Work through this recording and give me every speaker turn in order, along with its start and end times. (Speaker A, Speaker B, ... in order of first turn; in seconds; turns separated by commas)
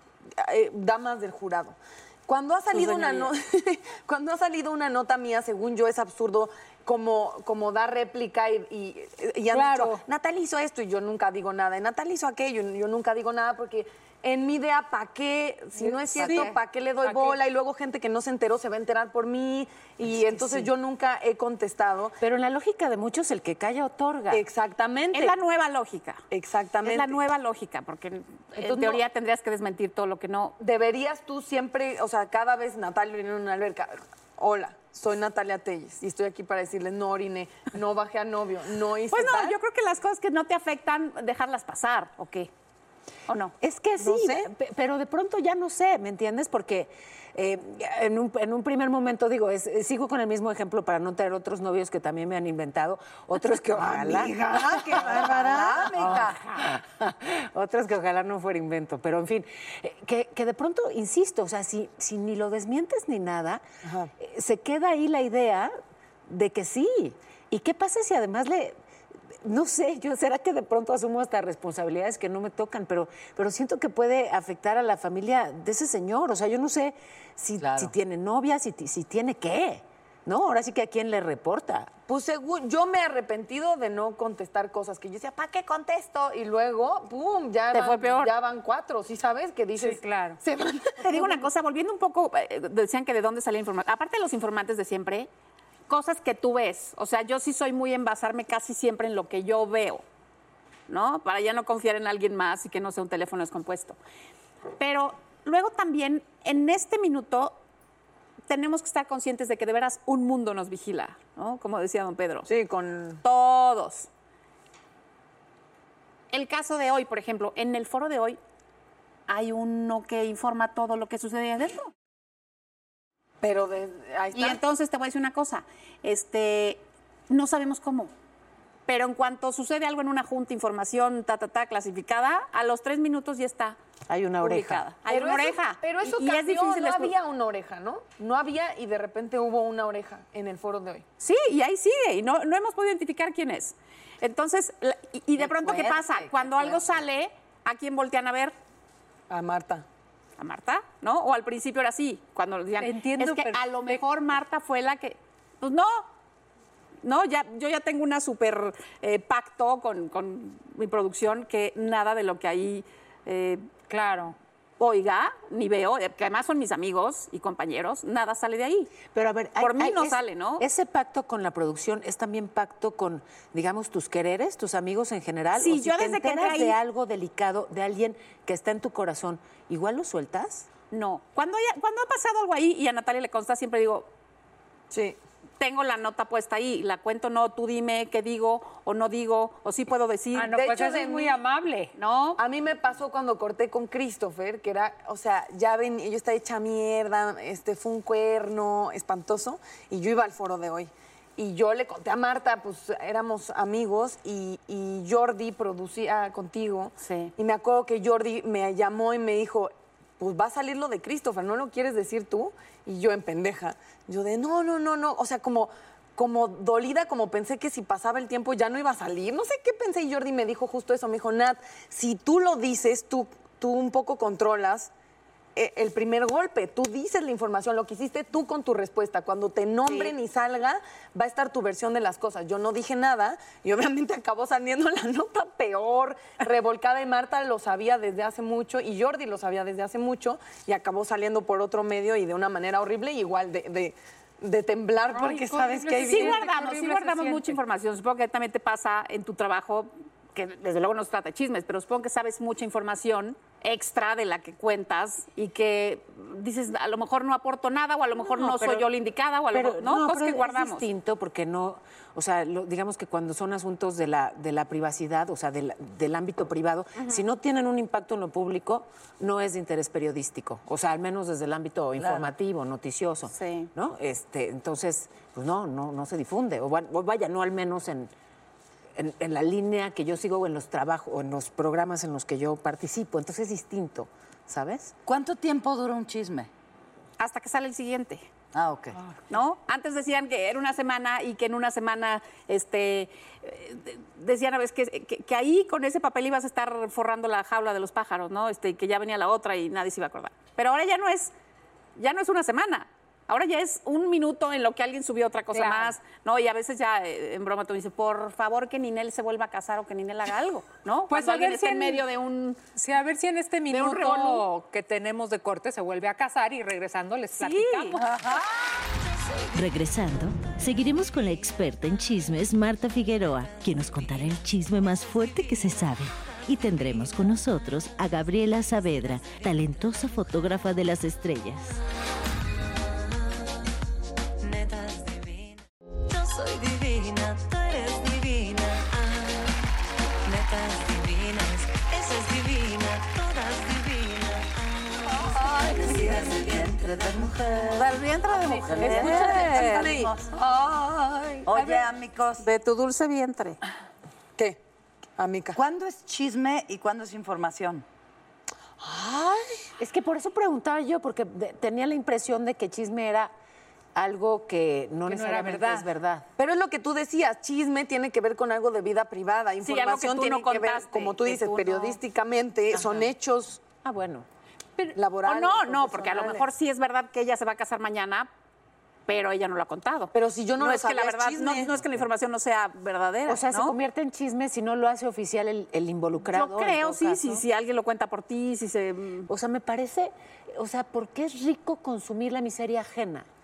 Speaker A: 0.4-22.2, Speaker B: 2.7-3.3, Speaker C: 9.5-10.0, Speaker C: 15.8-17.4, Speaker D: 20.3-20.7, Speaker D: 22.2-24.4, Speaker A: 24.3-25.4, Speaker B: 25.1-26.2, Speaker A: 26.3-27.2, Speaker B: 26.8-30.5, Speaker A: 28.6-29.0, Speaker A: 30.6-39.6, Speaker B: 39.1-42.5, Speaker B: 43.3-43.5, Speaker D: 43.6-63.6, Speaker A: 44.0-44.5, Speaker A: 53.8-56.2, Speaker E: 54.5-56.4, Speaker A: 63.8-64.1, Speaker D: 64.2-65.7, Speaker D: 66.3-68.8, Speaker D: 69.4-81.9, Speaker E: 77.6-77.9, Speaker A: 82.1-91.4, Speaker B: 87.7-88.3, Speaker C: 89.8-90.4, Speaker B: 91.0-95.3, Speaker B: 95.9-100.0, Speaker B: 100.9-104.0, Speaker B: 104.8-107.6, Speaker B: 108.5-112.5, Speaker A: 112.5-113.2, Speaker B: 113.2-114.1, Speaker B: 116.3-118.4, Speaker B: 119.3-121.9, Speaker A: 123.4-124.6, Speaker B: 124.3-128.1, Speaker B: 128.9-133.8, Speaker D: 134.1-134.8, Speaker B: 134.4-137.1, Speaker A: 135.1-141.0, Speaker B: 141.2-148.5, Speaker A: 145.4-147.0, Speaker A: 149.3-149.8, Speaker B: 150.4-156.1, Speaker C: 152.8-154.0, Speaker B: 157.0-163.6, Speaker C: 163.9-164.3, Speaker B: 164.8-168.9, Speaker D: 169.1-180.7, Speaker B: 169.6-170.6, Speaker B: 175.6-176.8, Speaker B: 180.9-184.1, Speaker A: 184.9-185.2, Speaker B: 185.6-190.6, Speaker C: 190.3-191.9, Speaker A: 190.5-191.4, Speaker B: 191.9-192.4, Speaker A: 192.4-224.9, Speaker B: 207.0-207.3, Speaker A: 225.6-246.4, Speaker C: 245.1-247.6, Speaker B: 246.0-260.9, Speaker D: 258.2-258.9, Speaker D: 259.5-278.1, Speaker B: 267.0-267.2, Speaker E: 272.0-272.3, Speaker B: 273.3-273.7, Speaker D: 278.9-284.9, Speaker E: 285.1-286.5, Speaker B: 287.2-288.2, Speaker E: 288.5-289.0, Speaker B: 289.3-301.3, Speaker B: 301.9-312.6, Speaker C: 305.5-305.9, Speaker C: 311.1-312.1, Speaker C: 312.8-318.4, Speaker B: 313.7-314.4, Speaker B: 317.4-318.0, Speaker E: 318.0-318.7, Speaker F: 318.6-327.3, Speaker G: 319.5-331.8, Speaker F: 328.5-330.2, Speaker F: 332.5-333.6, Speaker F: 334.4-339.7, Speaker F: 340.2-347.9, Speaker A: 345.3-346.1, Speaker E: 345.6-347.8, Speaker B: 347.7-349.9, Speaker E: 348.5-350.3, Speaker A: 348.7-351.5, Speaker E: 351.4-352.5, Speaker B: 352.4-353.6, Speaker A: 355.2-355.6, Speaker E: 355.5-357.8, Speaker A: 358.8-359.6, Speaker D: 359.8-363.3, Speaker D: 363.9-366.3, Speaker C: 365.1-365.9, Speaker A: 366.4-373.6, Speaker B: 369.6-372.0, Speaker D: 372.7-373.1, Speaker D: 373.8-374.2, Speaker A: 374.9-376.5, Speaker B: 375.2-378.3, Speaker B: 379.1-383.8, Speaker A: 380.1-381.7, Speaker D: 383.3-387.4, Speaker B: 386.3-389.3, Speaker D: 389.3-393.3